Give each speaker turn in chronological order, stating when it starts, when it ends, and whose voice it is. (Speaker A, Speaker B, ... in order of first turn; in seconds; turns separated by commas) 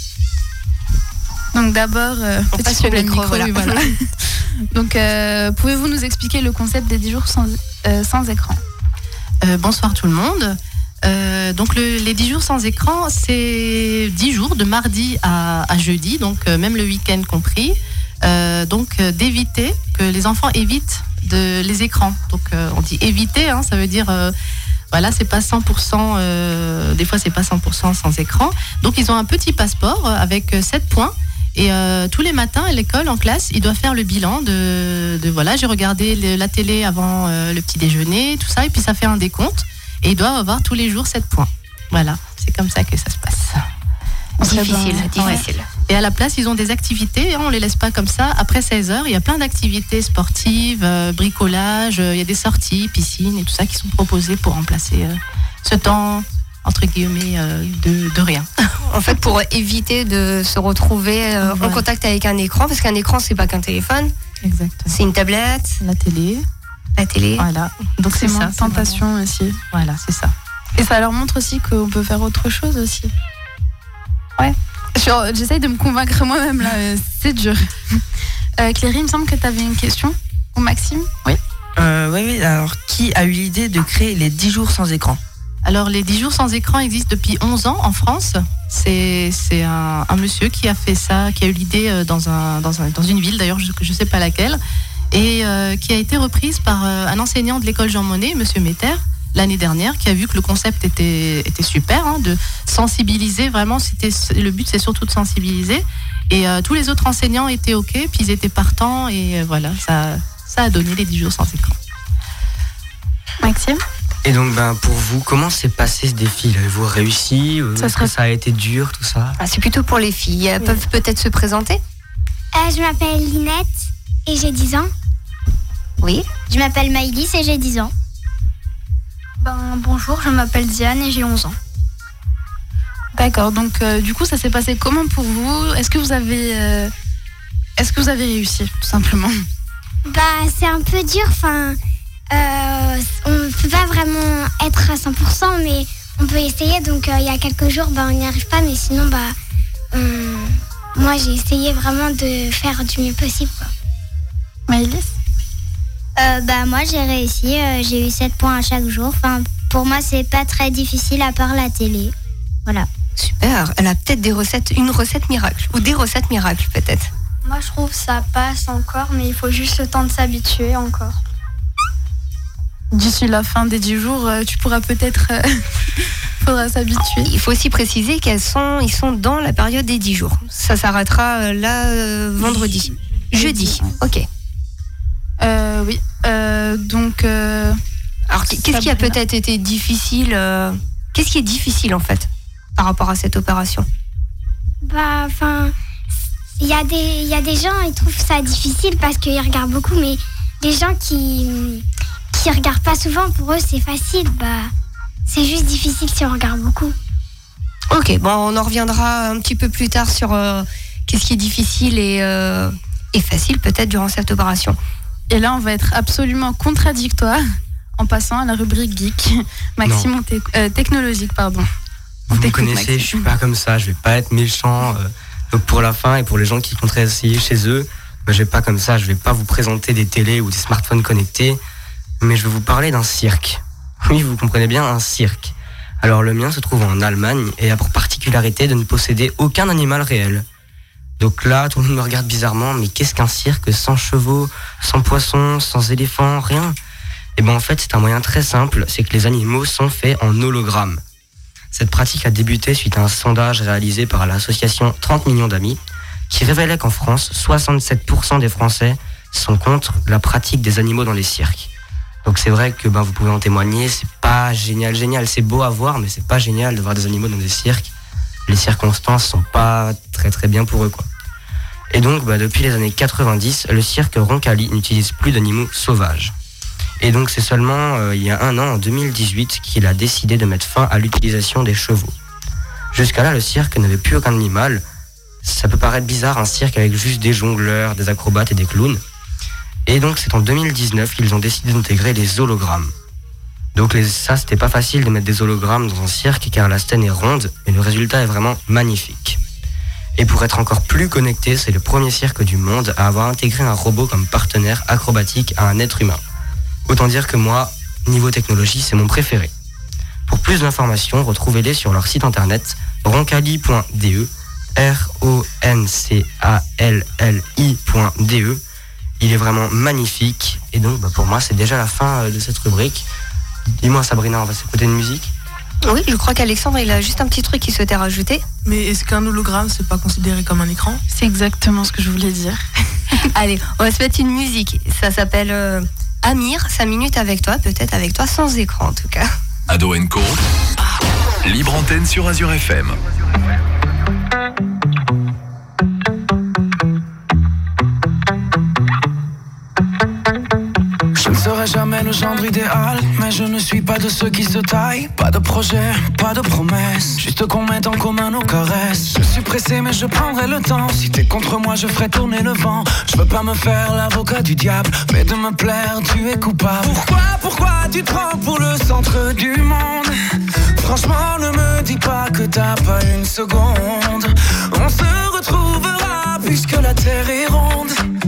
Speaker A: 1.5-8.6, Speaker B: 2.5-3.8, Speaker C: 9.4-24.3, Speaker C: 24.9-43.6, Speaker A: 44.4-45.4, Speaker B: 44.4-45.7, Speaker C: 45.9-58.5, Speaker B: 58.9-64.1, Speaker C: 61.4-61.8, Speaker C: 64.4-65.0, Speaker B: 64.9-65.8, Speaker C: 65.8-66.4, Speaker B: 67.0-67.5, Speaker C: 67.4-69.0, Speaker A: 68.1-69.6, Speaker C: 69.7-70.3, Speaker A: 70.8-73.1, Speaker A: 74.4-78.0, Speaker A: 78.6-81.4, Speaker D: 81.8-85.2, Speaker C: 85.6-94.6, Speaker C: 95.1-111.8, Speaker A: 113.4-113.8, Speaker E: 114.2-119.4, Speaker A: 117.8-118.1, Speaker B: 119.4-121.8, Speaker F: 122.5-124.9, Speaker B: 126.0-126.3, Speaker F: 126.5-127.9, Speaker G: 129.4-131.6, Speaker A: 133.1-136.9, Speaker A: 137.8-139.4, Speaker F: 140.0-141.8, Speaker F: 142.3-149.3, Speaker F: 149.9-153.7, Speaker A: 154.7-155.1, Speaker F: 156.2-162.1, Speaker B: 163.2-167.1, Speaker G: 167.4-171.2, Speaker A: 172.9-175.6, Speaker A: 176.4-177.3, Speaker B: 177.2-184.2, Speaker A: 183.3-183.9, Speaker A: 185.4-187.8, Speaker B: 188.3-193.9, Speaker A: 188.5-189.2, Speaker F: 194.8-195.7, Speaker F: 196.6-204.7, Speaker F: 205.3-206.9, Speaker B: 207.9-214.8, Speaker A: 215.3-217.4, Speaker A: 218.0-221.7, Speaker E: 219.8-220.1, Speaker E: 222.3-231.6, Speaker A: 222.3-223.3, Speaker E: 232.2-240.4, Speaker E: 241.2-246.8, Speaker E: 247.3-251.0, Speaker E: 251.7-255.8, Speaker E: 256.3-261.7, Speaker E: 262.2-267.9, Speaker E: 268.5-271.1, Speaker E: 271.9-276.3, Speaker E: 277.0-282.1, Speaker E: 282.9-284.8, Speaker E: 285.4-289.0, Speaker E: 289.9-292.9, Speaker E: 293.7-299.4, Speaker E: 300.1-306.2, Speaker E: 306.9-309.5, Speaker E: 310.3-318.6, Speaker E: 319.2-323.1, Speaker E: 323.8-325.3, Speaker B: 325.8-328.4, Speaker H: 328.6-331.0, Speaker A: 331.1-332.6, Speaker B: 333.3-339.3, Speaker I: 339.7-340.4, Speaker I: 341.4-343.0, Speaker J: 351.1-370.1, Speaker J: 370.7-378.0